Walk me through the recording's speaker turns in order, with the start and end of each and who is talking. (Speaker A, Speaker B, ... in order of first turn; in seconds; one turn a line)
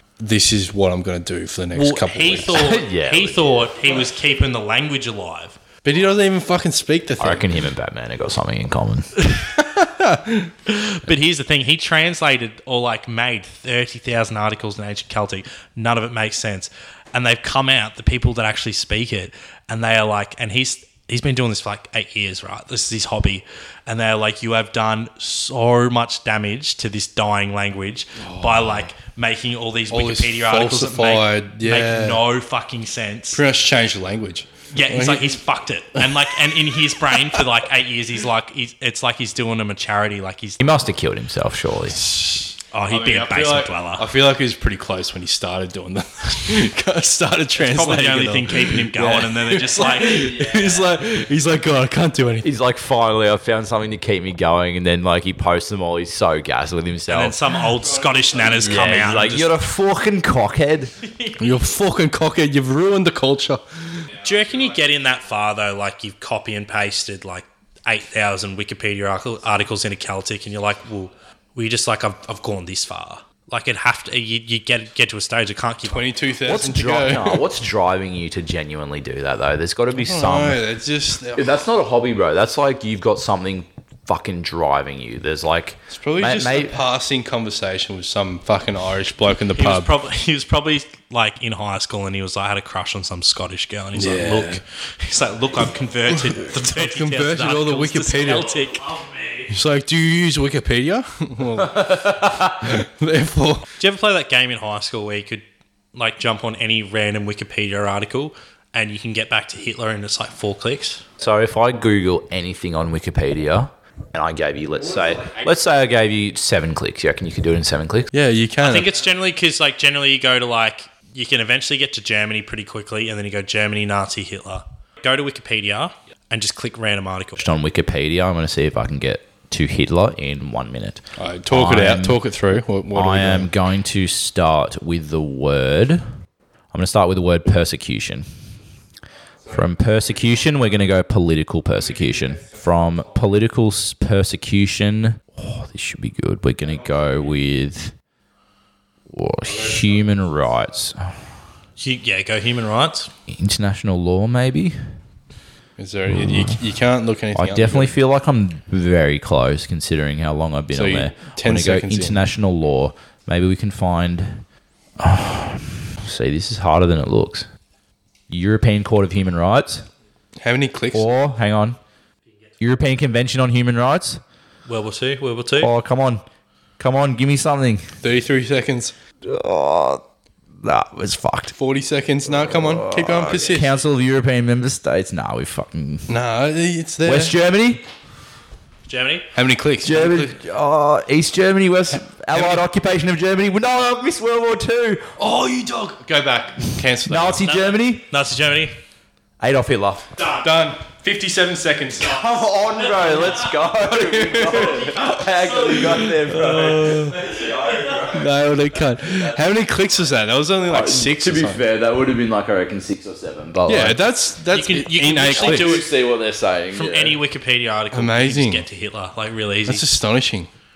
Speaker A: 0.2-2.7
Speaker B: 1.7-5.6
Speaker C: 2.5-4.0
Speaker A: 5.8-7.5
Speaker C: 7.2-9.1
Speaker A: 9.2-10.5
Speaker B: 10.7-33.4
Speaker A: 28.2-28.9
Speaker A: 29.9-32.2
Speaker A: 33.3-35.4
Speaker B: 34.7-40.6
Speaker A: 36.0-37.5
Speaker C: 40.6-42.0
Speaker A: 41.9-52.5
Speaker B: 42.7-44.1
Speaker B: 47.6-50.4
Speaker C: 50.0-51.0
Speaker C: 52.4-57.4
Speaker B: 57.1-59.5
Speaker A: 57.6-59.2
Speaker C: 58.6-60.9
Speaker B: 61.0-61.7
Speaker A: 61.4-64.2
Speaker B: 64.2-76.1
Speaker A: 75.9-77.5
Speaker C: 76.4-80.6
Speaker A: 79.9-81.6
Speaker C: 81.3-86.8
Speaker A: 85.9-89.9
Speaker B: 89.6-99.5
Speaker A: 93.9-94.6
Speaker A: 96.1-98.5
Speaker A: 99.5-103.7
Speaker C: 101.6-102.8
Speaker B: 103.8-111.0
Speaker C: 111.2-118.1
Speaker A: 118.1-118.9
Speaker B: 118.6-127.5
Speaker C: 127.4-132.2
Speaker A: 131.2-133.5
Speaker C: 132.9-136.0
Speaker C: 136.7-138.2
Speaker C: 139.5-147.9
Speaker C: 149.1-151.1
Speaker B: 151.8-153.1
Speaker C: 153.3-154.8
Speaker A: 155.8-158.0
Speaker C: 156.1-156.6
Speaker C: 157.3-164.4
Speaker A: 160.7-162.2
Speaker C: 165.0-167.5
Speaker C: 168.3-169.9
Speaker A: 170.4-171.1
Speaker C: 170.9-171.8
Speaker C: 172.6-174.2
Speaker B: 174.7-175.7
Speaker C: 175.6-176.2
Speaker C: 176.8-177.9
Speaker A: 178.0-178.9
Speaker C: 179.2-180.0
Speaker C: 180.6-181.5
Speaker A: 181.6-183.8
Speaker C: 182.3-186.1
Speaker A: 186.1-187.3
Speaker C: 187.0-187.8
Speaker B: 188.9-189.3
Speaker A: 189.3-190.4
Speaker C: 189.8-195.1
Speaker A: 192.3-192.6
Speaker A: 195.2-197.4
Speaker C: 197.0-198.0
Speaker B: 197.4-198.8
Speaker C: 199.4-200.1
Speaker B: 200.2-200.4
Speaker A: 200.4-202.3
Speaker C: 202.0-208.4
Speaker B: 202.7-203.6
Speaker A: 203.8-205.0
Speaker B: 204.5-205.5
Speaker A: 205.7-207.2
Speaker A: 208.0-211.6
Speaker C: 209.0-209.4
Speaker C: 210.6-214.0
Speaker A: 213.7-215.8
Speaker B: 214.5-215.8
Speaker C: 215.3-217.2
Speaker B: 216.7-219.9
Speaker A: 217.9-218.7
Speaker A: 219.7-220.5